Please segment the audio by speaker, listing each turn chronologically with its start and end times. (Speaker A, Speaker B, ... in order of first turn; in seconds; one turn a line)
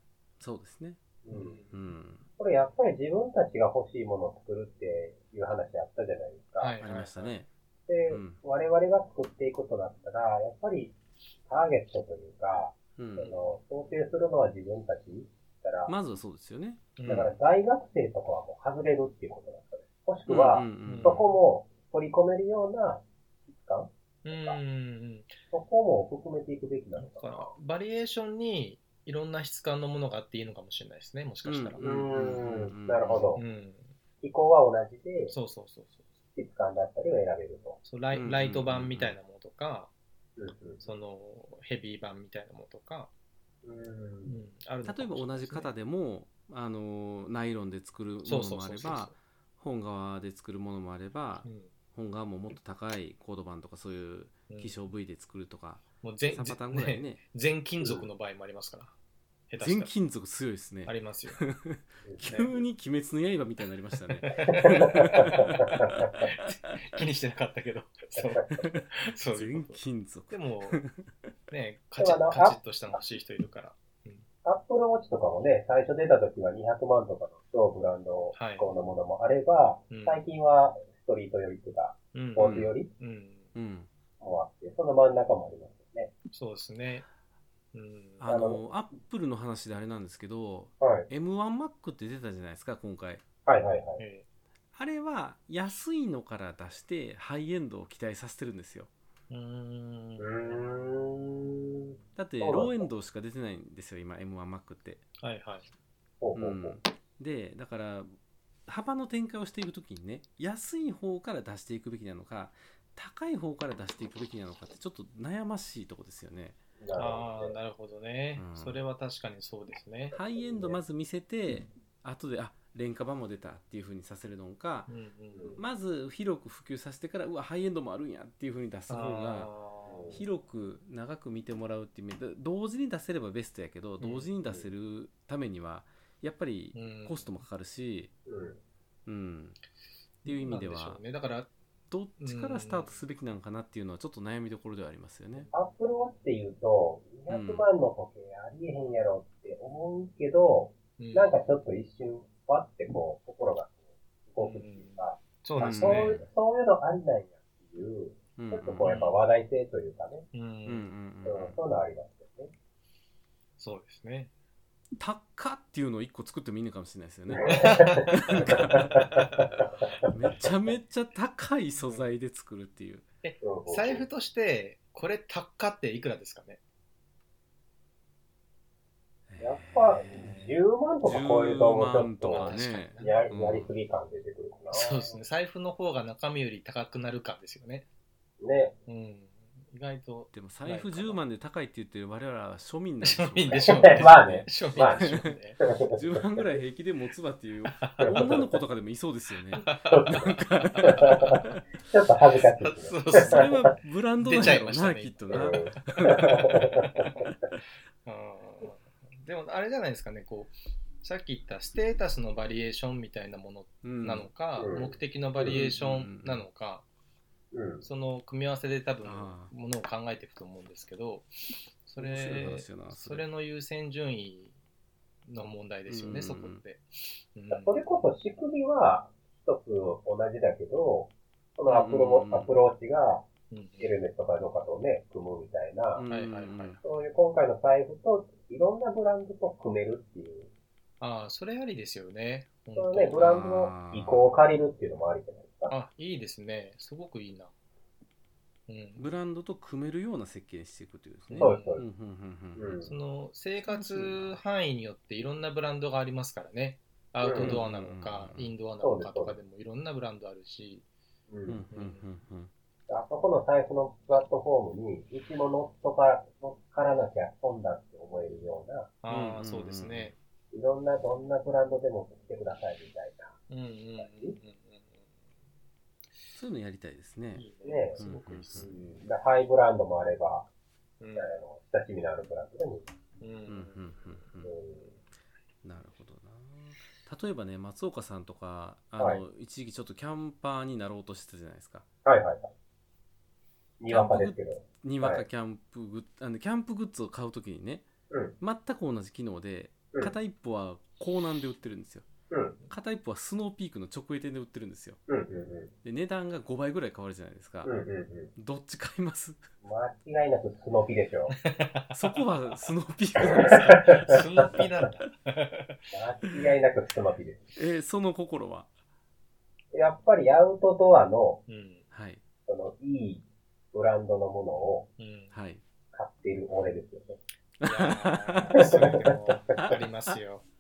Speaker A: 0.4-1.0
Speaker B: 1.2-1.6
Speaker C: 1.3-1.8
Speaker A: 1.7-2.2
Speaker B: 2.4-6.8
Speaker C: 6.6-7.4
Speaker A: 6.8-7.5
Speaker B: 7.9-10.9
Speaker A: 8.1-8.4
Speaker B: 11.5-15.9
Speaker A: 13.0-13.3
Speaker A: 15.9-17.0
Speaker C: 16.9-17.4
Speaker B: 17.1-24.6
Speaker A: 20.3-21.3
Speaker C: 20.8-21.2
Speaker C: 24.2-25.4
Speaker B: 25.5-27.5
Speaker C: 27.0-31.8
Speaker A: 31.4-33.3
Speaker B: 31.8-33.4
Speaker C: 33.3-33.9
Speaker B: 34.2-35.3
Speaker C: 35.3-36.1
Speaker B: 36.3-37.8
Speaker C: 37.8-39.9
Speaker A: 38.1-39.1
Speaker B: 40.4-40.8
Speaker C: 40.8-43.1
Speaker B: 43.6-44.4
Speaker C: 44.2-45.7
Speaker A: 44.8-57.2
Speaker C: 48.2-49.1
Speaker C: 51.4-51.7
Speaker C: 54.5-54.8
Speaker C: 56.0-58.9
Speaker B: 57.8-58.1
Speaker C: 59.5-59.9
Speaker A: 59.6-66.2
Speaker C: 60.8-61.4
Speaker C: 62.3-62.6
Speaker C: 64.2-65.6
Speaker B: 64.5-66.1
Speaker C: 66.3-70.8
Speaker B: 68.2-68.6
Speaker A: 68.6-71.3
Speaker C: 71.5-74.2
Speaker B: 72.0-72.6
Speaker B: 74.4-82.9
Speaker C: 78.3-78.7
Speaker C: 79.9-80.2
Speaker C: 82.1-83.5
Speaker A: 82.4-82.7
Speaker A: 83.5-83.9
Speaker B: 84.2-86.1
Speaker C: 86.3-87.1
Speaker C: 87.7-88.2
Speaker A: 88.2-93.2
Speaker B: 88.3-88.6
Speaker B: 90.8-91.1
Speaker B: 93.5-94.0
Speaker C: 94.0-94.2
Speaker A: 94.7-98.9
Speaker C: 99.3-100.3
Speaker B: 100.2-101.8
Speaker A: 102.2-105.0
Speaker B: 102.4-102.8
Speaker C: 105.2-105.7
Speaker B: 106.2-106.8
Speaker A: 106.3-108.1
Speaker A: 108.7-116.6
Speaker B: 116.8-117.5
Speaker C: 116.9-120.2
Speaker A: 118.4-118.8
Speaker A: 120.1-124.9
Speaker B: 120.4-120.8
Speaker C: 124.9-125.5
Speaker A: 125.5-129.5
Speaker C: 128.9-130.0
Speaker B: 129.8-130.2
Speaker A: 130.1-138.1
Speaker C: 134.0-134.3
Speaker B: 134.4-134.7
Speaker C: 136.7-137.4
Speaker B: 138.2-138.6
Speaker A: 139.1-139.6
Speaker A: 140.2-141.0
Speaker C: 140.2-141.5
Speaker A: 141.9-145.5
Speaker C: 142.2-143.0
Speaker B: 145.5-160.3
Speaker A: 147.3-147.6
Speaker C: 151.0-151.4
Speaker C: 154.4-156.2
Speaker A: 155.6-156.2
Speaker A: 158.4-159.0
Speaker C: 158.8-159.2
Speaker C: 160.3-160.9
Speaker A: 160.7-161.6
Speaker B: 161.2-162.5
Speaker C: 163.6-164.3
Speaker A: 165.0-173.0
Speaker B: 167.3-169.2
Speaker C: 171.7-172.0
Speaker C: 173.2-176.6
Speaker B: 173.4-174.0
Speaker A: 179.3-180.4
Speaker B: 179.4-185.2
Speaker A: 181.0-183.7
Speaker C: 182.3-183.2
Speaker C: 184.7-187.9
Speaker B: 188.4-188.7
Speaker C: 188.9-191.2
Speaker A: 190.3-195.3
Speaker C: 193.0-195.6
Speaker B: 193.5-195.1
Speaker B: 195.6-196.2
Speaker A: 195.9-201.6
Speaker C: 197.8-198.3
Speaker B: 198.0-198.5
Speaker C: 199.6-201.1
Speaker B: 199.8-203.5
Speaker C: 202.6-203.4
Speaker A: 203.1-206.5
Speaker C: 204.2-205.6
Speaker B: 205.3-207.3
Speaker C: 206.5-207.1
Speaker C: 208.0-216.9
Speaker A: 213.8-214.3
Speaker B: 214.6-215.7
Speaker A: 215.6-216.4
Speaker B: 217.5-217.8
Speaker C: 217.8-221.3
Speaker A: 219.0-219.5
Speaker C: 221.8-224.5
Speaker A: 222.0-223.2
Speaker C: 225.2-227.8
Speaker A: 225.9-226.6
Speaker B: 227.5-233.2
Speaker A: 231.7-232.5
Speaker C: 233.5-233.9
Speaker B: 233.8-236.0
Speaker A: 235.9-236.8
Speaker C: 236.1-236.8
Speaker B: 236.8-240.5
Speaker C: 241.0-243.3
Speaker B: 242.8-245.8
Speaker A: 243.2-244.3
Speaker C: 245.7-247.5
Speaker C: 248.7-249.1
Speaker A: 249.0-252.8
Speaker C: 251.3-251.8
Speaker B: 251.3-251.8
Speaker B: 252.6-253.0
Speaker C: 252.8-260.8
Speaker A: 253.7-254.4
Speaker B: 257.2-257.6
Speaker A: 257.4-258.5
Speaker B: 258.8-259.4
Speaker B: 261.3-261.6
Speaker A: 261.5-262.5
Speaker C: 261.7-262.1
Speaker B: 262.9-268.9
Speaker C: 269.0-270.2
Speaker A: 269.1-270.1
Speaker B: 270.5-273.3
Speaker C: 273.5-275.1
Speaker B: 274.0-274.4
Speaker A: 276.3-277.4
Speaker C: 277.3-279.1
Speaker B: 277.6-280.4
Speaker A: 278.0-278.7
Speaker C: 281.0-281.4
Speaker B: 281.1-282.8
Speaker C: 283.2-284.3
Speaker A: 283.5-284.5
Speaker B: 284.4-284.9
Speaker A: 285.6-291.8
Speaker B: 289.0-289.2
Speaker B: 292.0-292.5
Speaker B: 293.8-295.2
Speaker A: 293.9-297.8
Speaker B: 298.1-298.4
Speaker A: 298.4-302.1
Speaker B: 302.3-302.6
Speaker A: 302.7-305.0
Speaker B: 305.1-305.7
Speaker A: 305.8-307.7
Speaker B: 307.6-308.3
Speaker A: 308.4-309.4
Speaker B: 309.6-311.3
Speaker C: 311.3-312.2
Speaker A: 311.9-314.2
Speaker B: 313.3-314.2
Speaker C: 313.9-315.8
Speaker B: 315.9-317.5
Speaker A: 317.6-318.7
Speaker B: 319.7-321.4
Speaker C: 321.5-321.9
Speaker A: 321.9-322.2
Speaker B: 322.5-324.9
Speaker C: 325.0-325.3
Speaker A: 325.3-325.6
Speaker B: 325.9-327.2
Speaker A: 327.6-328.7
Speaker C: 327.6-330.4
Speaker B: 328.5-329.6
Speaker A: 329.4-330.2